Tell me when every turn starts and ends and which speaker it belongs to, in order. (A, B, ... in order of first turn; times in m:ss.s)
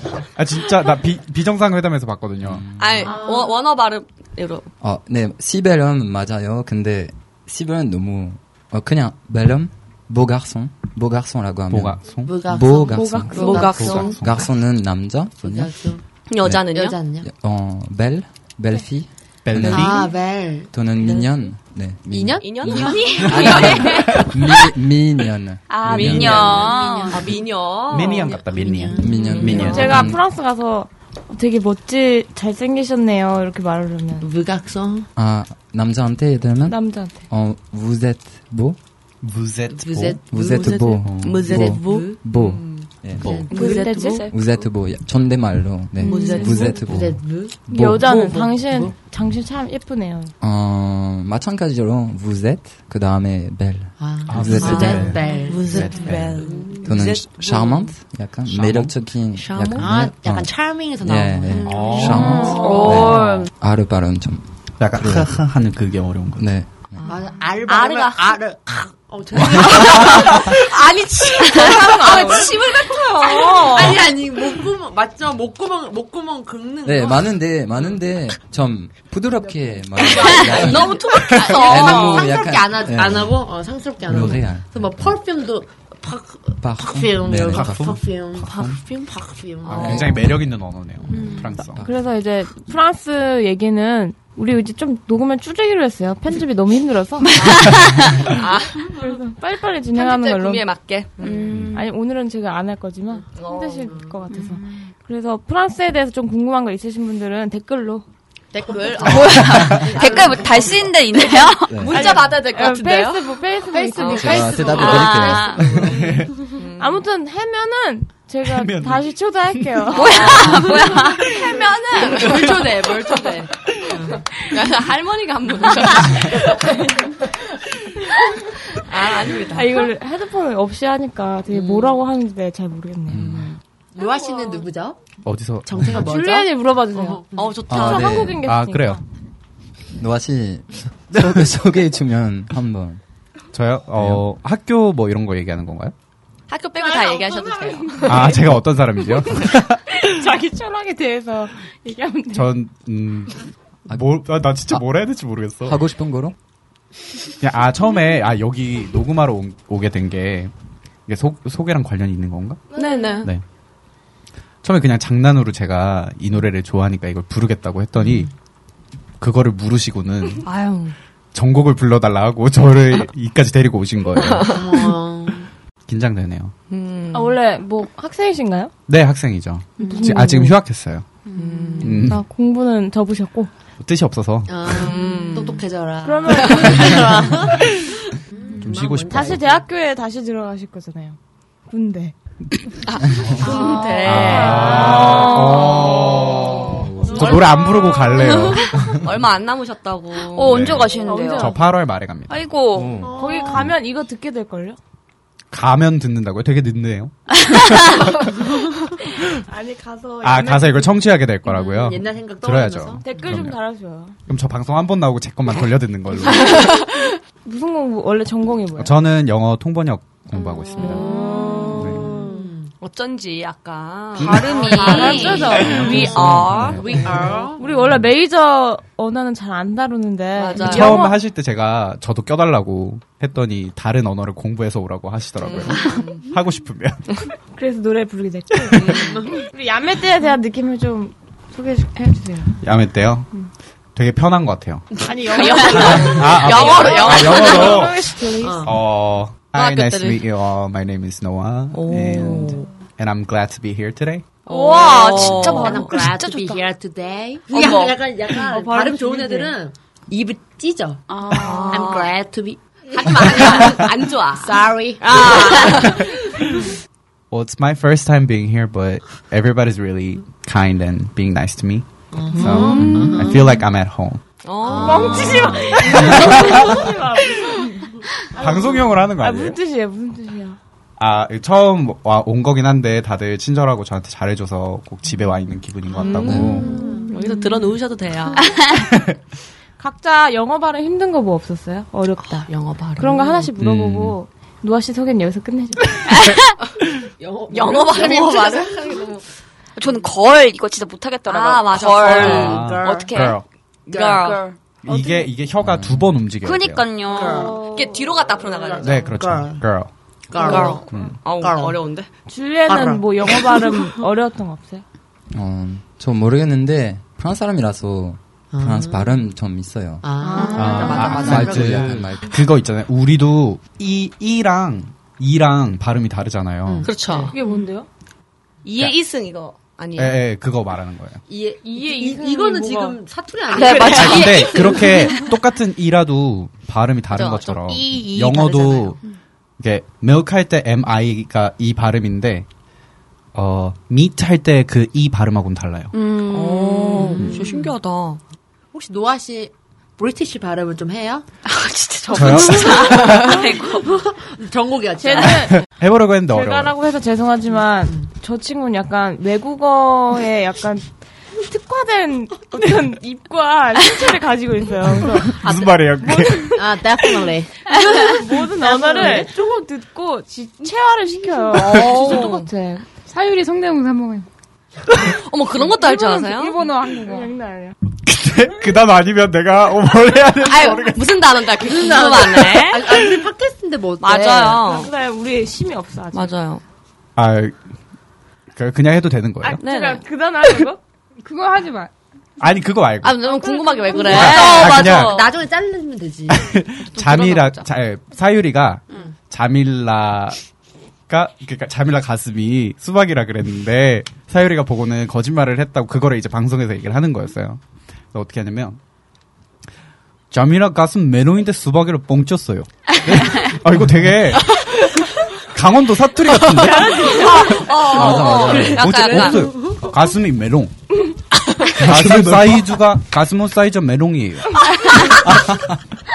0:00.4-0:02.7 A
0:02.4-0:03.2 B
0:02.8-0:04.7 C
0:03.0-0:03.5 D
0:04.8-0:16.6 B
0:11.7-0:12.4 A
0:12.2-0:14.2 D
0:12.9-0:14.1 E
0:13.3-0:14.2 C
0:13.6-0:14.5 A
0:15.4-0:16.0 D
0:16.3-0:17.0 C
0:16.7-0:17.3 D
0:17.2-0:20.1 B
0:19.4-0:20.1 A
0:19.7-0:21.3 D
0:20.7-0:26.6 B
0:22.1-0:24.3 D
0:22.4-0:24.3 C
0:22.9-0:23.3 F
0:25.7-0:27.4 F
0:25.8-0:28.4 C
0:25.9-0:26.7 A
0:26.6-0:27.4 D
0:27.8-0:30.1 A
0:28.0-0:30.0 D
0:29.0-0:30.2 B
0:29.6-0:34.3 E
0:34.2-0:35.1 D
0:35.2-0:38.8 B
0:36.7-0:37.3 E
0:39.2-0:40.2 A
0:39.7-0:44.0 D
0:40.3-0:43.5 B
0:40.4-0:42.2 C
0:41.0-0:41.5 A
0:43.2-0:43.5 A
0:43.5-0:44.3 C
0:43.5-0:44.3 E
0:43.6-0:44.4 F
0:44.3-0:48.4 B
0:46.0-0:46.9 C
0:46.0-0:46.8 E
0:46.6-0:48.9 D
0:47.7-0:50.3 E
0:50.4-0:55.2 B
0:54.0-0:57.1 D
0:54.3-0:56.6 A
0:54.6-0:57.9 C
0:56.8-1:05.4 B
0:58.5-0:58.9 A
0:59.4-0:59.9 C
0:59.8-1:03.0 D
1:01.5-1:03.5 F
1:01.7-1:02.5 A
1:02.5-1:03.3 C
1:04.8-1:06.5 A
1:06.4-1:07.0 B
1:07.0-1:08.4 C
1:07.1-1:17.4 D
1:09.5-1:14.1 C
1:09.8-1:10.4 A
1:16.8-1:23.5 B
1:19.9-1:30.3 D
1:20.0-1:22.4 C
1:24.0-1:25.2 B
1:26.6-1:28.8 B
1:27.3-1:28.0 A
1:29.6-1:31.8 A
1:29.8-1:30.3 B
1:31.1-1:31.6 F
1:31.6-1:32.0 B
1:31.8-1:37.4 E
1:37.4-1:39.1 C
1:37.5-1:37.9 F
1:38.8-1:40.7 E
1:39.9-1:41.6 C
1:41.2-1:41.9 F
1:41.7-1:48.0 E
1:43.4-1:44.0 C
1:44.3-1:44.9 F
1:48.5-1:50.8 D
1:48.7-1:50.5 C
1:49.0-1:51.9 F
1:49.5-1:49.9 A
1:51.7-1:52.2 B
1:51.8-1:53.4 C
1:51.9-1:54.8 E
1:53.7-1:56.3 D
1:54.1-1:56.0 B
1:54.8-1:55.8 F
1:54.8-1:55.0 C
1:55.9-1:56.3 A
1:56.5-1:57.0 C
1:56.6-2:00.6 E
1:58.5-1:59.9 A
1:59.9-2:02.9 C
1:59.9-2:01.4 F
2:02.0-2:04.2 D
2:02.2-2:02.7 A
2:04.4-2:06.6 C
2:08.8-2:09.9 C
2:09.4-2:13.3 E
2:11.6-2:11.9 C
2:13.1-2:13.6 B
2:13.9-2:15.0 D
2:15.2-2:16.0 A
2:15.6-2:17.6 D
2:15.9-2:19.0 E
2:17.3-2:18.2 C
2:17.7-2:18.4 B
2:18.4-2:19.0 A
2:20.0-2:23.0 B
2:23.5-2:25.9 A
2:24.0-2:24.2 B
2:26.5-2:28.4 C
2:26.9-2:28.2 D
2:27.5-2:28.3 E
2:28.0-2:30.0 A
2:29.9-2:32.5 E
2:32.3-2:35.8 A
2:35.6-2:36.4 B
2:37.4-2:40.5 A
2:41.1-2:42.6 A
2:42.8-2:43.3 C
2:44.6-2:48.3 A
2:49.2-2:50.5 A
2:50.4-2:51.0 C
2:51.3-2:54.6 A
2:54.2-2:54.9 C
2:54.4-2:55.5 D
2:55.9-2:56.5 A
2:56.7-2:57.4 C
2:57.1-2:58.7 E
2:58.9-3:01.1 A
2:59.8-3:00.2 F
2:59.8-3:00.6 E
3:01.3-3:02.1 C
3:01.8-3:02.2 A
3:01.9-3:03.5 E
3:03.8-3:04.9 A
3:04.5-3:09.6 D
3:04.7-3:05.6 C
3:06.0-3:07.6 E
3:06.4-3:06.9 C
3:08.6-3:09.5 A
3:09.0-3:12.2 E
3:12.9-3:17.2 C
3:13.4-3:15.2 D
3:13.5-3:15.7 E
3:14.0-3:19.0 A
3:16.6-3:17.8 D
3:16.7-3:17.4 B
3:18.2-3:20.9 C
3:20.3-3:21.7 F
3:20.4-3:22.5 A
3:21.0-3:21.6 E
3:22.3-3:23.1 F
3:22.8-3:23.1 B
3:23.0-3:23.7 D
3:23.1-3:24.8 E
3:25.5-3:28.4 A
3:29.2-3:31.0 E
3:30.2-3:33.6 A
3:31.5-3:33.4 D
3:33.0-3:34.2 E
3:34.3-3:36.7 A
3:36.4-3:36.7 E
3:37.4-3:39.0 E
3:38.8-3:41.0 A
3:40.6-3:41.7 F
3:40.8-3:42.3 C
3:40.8-3:41.9 E
3:41.8-3:42.1 A
3:42.0-3:42.7 D
3:42.8-3:47.5 C
3:44.2-3:44.7 A
3:44.2-3:46.0 F
3:44.6-3:47.6 D
3:44.6-3:46.1 E
3:45.6-3:47.3 A
3:46.6-3:46.8 B
3:47.6-3:51.2 E
3:50.4-3:51.0 C
3:50.6-3:57.2 A
3:55.4-3:56.2 C
3:57.5-4:02.6 E
3:58.7-3:59.0 A
3:58.8-3:59.2 C
3:58.9-3:59.4 D
4:02.6-4:03.3 A
4:04.0-4:05.0 A
4:05.0-4:07.6 D
4:05.1-4:08.7 E
4:05.3-4:07.9 C
4:05.6-4:14.4 A
4:08.4-4:08.8 D
4:09.5-4:10.3 C
4:11.7-4:12.7 C
4:14.5-4:16.6 F
4:14.5-4:16.0 C
4:14.6-4:26.6 D
4:17.5-4:18.6 F
4:17.5-4:18.0 C
4:18.5-4:19.5 E
4:21.1-4:22.1 F
4:21.3-4:22.1 C
4:23.4-4:23.9 A
4:24.4-4:26.1 C
4:27.3-4:34.2 A
4:32.1-4:33.5 D
4:32.4-4:32.9 E
4:34.4-4:35.9 C
4:34.6-4:36.0 D
4:34.7-4:40.6 E
4:35.2-4:37.0 A
4:38.4-4:39.6 A
4:41.0-4:46.7 A
4:46.0-4:47.1 E
4:46.2-4:47.1 D
4:46.2-4:46.6 B
4:46.9-4:48.5 C
4:48.8-4:49.1 A
4:49.8-4:56.0 E
4:52.5-4:53.5 C
4:53.6-4:54.1 B
4:56.1-4:56.5 F
4:57.2-4:59.2 D
4:57.5-4:59.0 C
4:59.8-5:03.4 F
5:01.3-5:02.8 C
5:01.8-5:03.2 D
5:02.1-5:03.4 A
5:03.9-5:04.4 D
5:03.9-5:04.4 C
5:04.1-5:04.6 F
5:04.8-5:07.0 A
5:04.9-5:05.3 E
5:05.6-5:06.2 B
5:06.4-5:07.7 F
5:07.1-5:07.6 D
5:07.2-5:09.1 C
5:07.2-5:07.9 E
5:08.6-5:09.7 D
5:08.8-5:09.9 A
5:10.3-5:11.8 D
5:10.4-5:12.1 C
5:10.8-5:11.2 A
5:12.3-5:14.8 E
5:12.7-5:13.8 D
5:15.3-5:20.1 B
5:18.5-5:19.2 D
5:20.0-5:21.8 D
5:20.2-5:21.2 E
5:20.5-5:26.9 A
5:20.6-5:21.8 C
5:20.9-5:22.4 B
5:26.6-5:27.4 D
5:26.8-5:27.3 C
5:27.3-5:27.9 E
5:28.6-5:30.2 C
5:30.0-5:31.2 A
5:31.3-5:35.2 D
5:31.6-5:33.0 E
5:33.5-5:35.3 F
5:33.5-5:34.4 C
5:33.9-5:39.0 A
5:37.1-5:38.6 C
5:38.0-5:39.0 D
5:39.6-5:42.5 A
5:43.3-5:45.9 A
5:45.9-5:47.3 F
5:46.3-5:48.2 C
5:47.0-5:47.7 D
5:48.7-5:51.3 D
5:51.5-5:54.0 F
5:52.1-5:53.4 C
5:52.1-5:53.4 A
5:52.6-5:55.6 D
5:55.0-5:55.7 E
5:55.5-5:56.8 A
5:56.3-6:05.4 E
5:57.5-5:58.1 D
6:05.2-6:06.6 A
6:05.4-6:05.9 D
6:06.0-6:06.6 E
6:06.5-6:09.3 D
6:07.7-6:12.9 E
6:11.5-6:12.5 C
6:13.1-6:14.3 G
6:15.0-6:16.6 C
6:15.8-6:17.3 G
6:17.0-6:17.8 E
6:18.0-6:21.2 A
6:20.4-6:23.0 C
6:21.6-6:24.6 D
6:24.0-6:24.9 C
6:24.6-6:26.3 E
6:26.1-6:26.6 C
6:27.2-6:27.6 A
6:28.5-6:29.6 A
6:29.4-6:30.8 E
6:29.6-6:30.0 C
6:31.2-6:31.9 G
6:32.4-6:33.2 A
6:33.0-6:35.3 C
6:33.2-6:34.4 E
6:33.9-6:36.5 D
6:34.0-6:35.2 A
6:36.3-6:40.4 A
6:36.9-6:37.7 C
6:41.1-6:47.6 A
6:48.1-6:48.8 A
6:50.3-7:00.7 A
6:56.6-6:59.7 C
6:56.7-6:57.6 E
6:58.0-6:58.9 B
6:58.1-6:59.9 D
7:01.7-7:05.6 A
7:01.8-7:02.7 B